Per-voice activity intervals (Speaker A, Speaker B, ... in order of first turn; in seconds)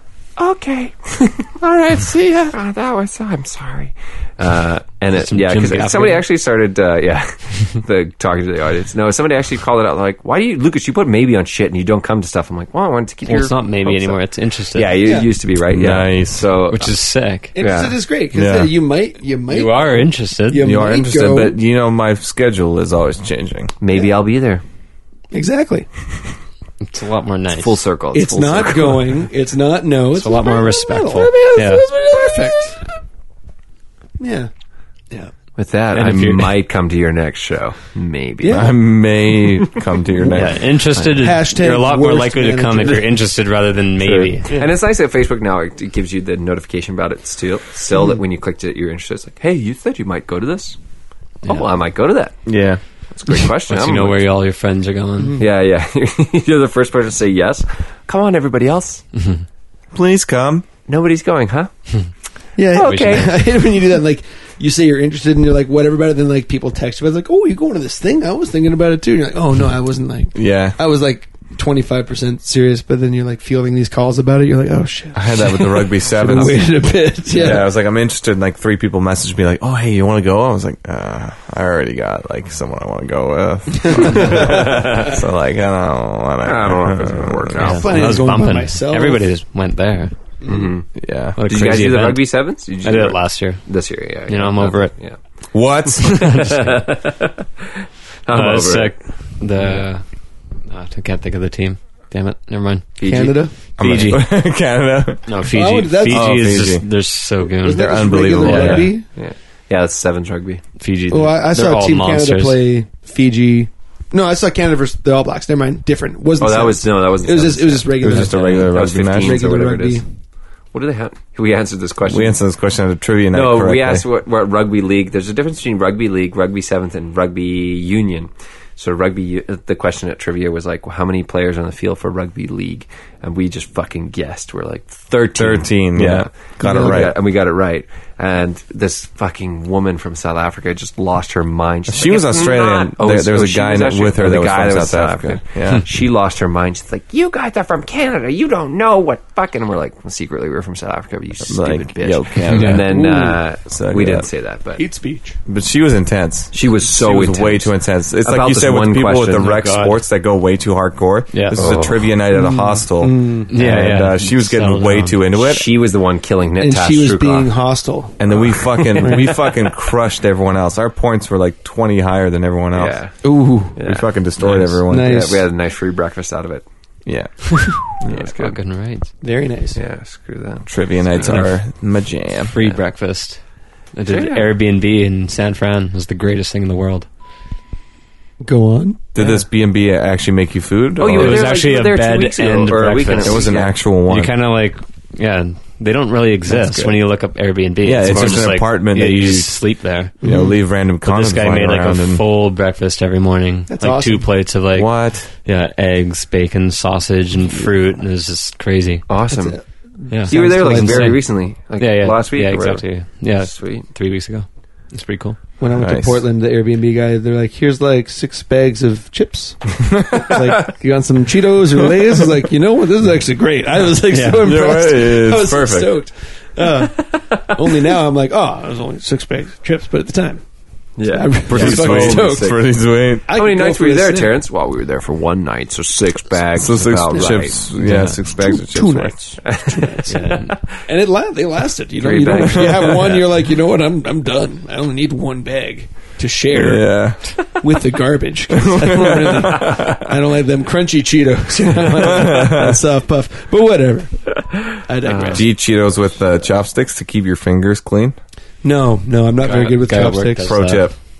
Speaker A: 0.4-14.2, 14.7-16.9, 17.6-18.0, 23.8-24.6, 27.5-29.1, 35.6-38.8, 39.4-39.8, 44.0-50.8, 51.5-52.4, 53.1-54.3, 55.4-59.0, 60.9-61.7, 62.7-63.3, 84.1-85.2, 86.4-88.1, 90.5-90.9, 91.4-95.2, 95.9-97.3, 98.3-99.0, 99.6-99.9, 103.0-103.4, 109.1-110.7, 116.4-120.0, 120.7-122.4, 123.3-154.8, 156.5-159.8, 161.6-162.1, 165.3-167.5, 168.7-169.7, 172.7-173.2, 173.8-176.7, 178.0-178.6, 179.8-181.5, 184.1-184.5, 191.0-193.7, 196.5-196.9, 209.1-209.6, 210.3-212.8, 213.4-213.9, 227.1-227.5, 231.0-232.7, 233.3-237.9, 239.4-240.8, 242.0-243.3, 255.1-255.5
Speaker B: 5.1-6.3, 13.2-15.1, 16.7-17.6, 19.5-20.7, 26.8-27.8, 30.1-31.9, 35.9-36.6, 40.3-44.6, 51.4-51.7, 53.7-55.4, 59.1-59.5, 62.8-63.4, 87.6-90.2, 91.4-93.7, 94.3-95.0, 96.0-97.1, 98.3-100.0, 100.7-103.0, 103.8-104.3, 105.3-109.0, 110.8-112.6, 152.5-152.9, 159.4-160.0, 161.3-161.8, 163.5-165.2, 178.1-179.1, 181.2-181.5, 182.5-183.4, 183.9-187.1, 191.1-200.2, 201.0-209.1, 210.1-215.4, 224.1-224.6, 237.8-238.2, 240.1-240.6, 259.4-260.9
Speaker C: 15.0-15.3, 17.6-21.6, 25.3-25.9, 28.1-32.8, 34.2-34.5, 38.4-38.8, 41.1-43.1, 55.2-55.4, 62.6-77.7, 83.8-85.0, 87.6-89.3, 90.4-90.7, 103.0-103.5, 105.5-106.4, 107.6-109.1, 111.1-120.0, 136.6-137.1, 152.9-153.4, 154.8-155.4, 162.3-163.5, 166.6-169.3, 173.2-173.8, 174.9-175.4, 179.2-179.8, 188.4-189.4, 200.2-200.6, 203.7-204.3, 209.3-211.2, 215.6-230.4, 231.0-232.7, 233.3-234.4, 237.1-237.4, 238.4-240.3, 240.9-255.5, 258.6-260.5
Speaker D: 15.7-16.5, 18.3-18.7, 20.6-23.8, 38.5-40.7, 52.5-52.8, 59.9-60.7, 70.3-70.8, 75.1-87.8, 91.0-91.4, 95.5-96.4, 103.8-105.4, 106.1-106.9, 107.7-108.9, 118.0-119.4, 122.1-124.0, 135.4-137.2, 141.9-145.8, 151.5-154.3, 155.5-165.7, 168.2-173.0, 173.8-175.3, 177.1-177.8, 180.7-182.6, 189.2-191.5, 193.2-194.3, 197.8-199.6, 200.2-202.2, 204.7-205.3, 215.7-216.2, 220.0-220.2, 224.3-226.0, 231.5-233.4, 236.5-239.2, 246.5-247.4, 248.7-249.9, 252.2-252.8, 255.3-258.2, 260.4-261.0